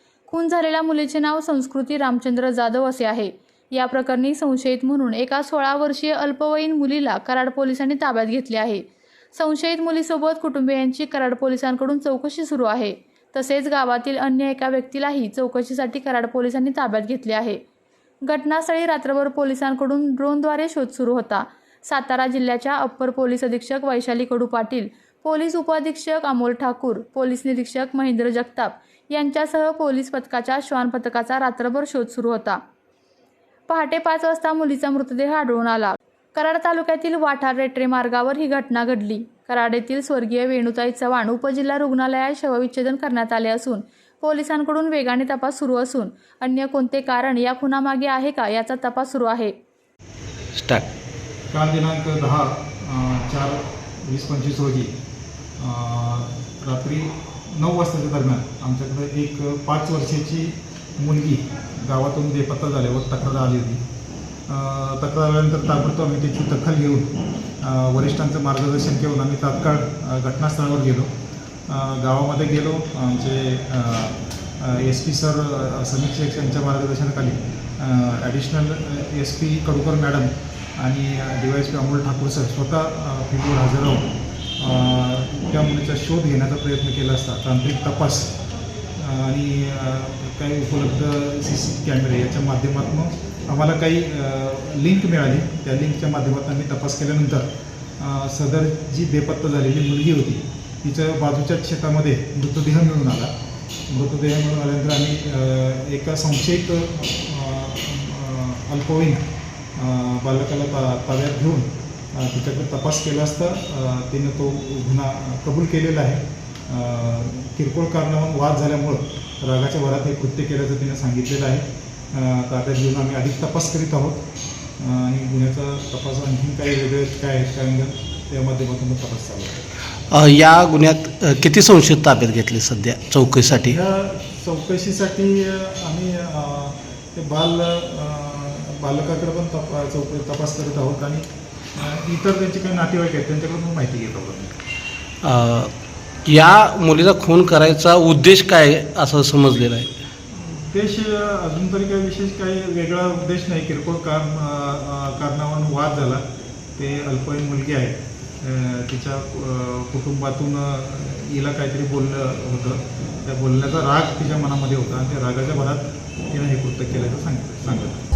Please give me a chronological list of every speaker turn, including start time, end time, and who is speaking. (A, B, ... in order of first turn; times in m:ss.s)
0:00.3-0:17.6 A
0:18.2-0:32.6 A
0:33.7-0:49.5 A
0:50.6-0:50.9 B
0:51.5-0:54.9 C
0:55.6-1:03.8 C
1:04.5-1:11.1 C
1:11.7-1:28.3 C
1:29.0-1:37.5 C
1:38.0-1:43.3 C
1:43.9-1:49.2 C
1:49.8-2:04.2 C
2:04.8-2:09.7 C
2:10.1-2:13.8 B
2:13.6-2:24.6 C
2:25.2-2:25.7 B
2:26.3-2:29.9 B
2:30.3-2:36.2 C
2:36.8-2:48.0 C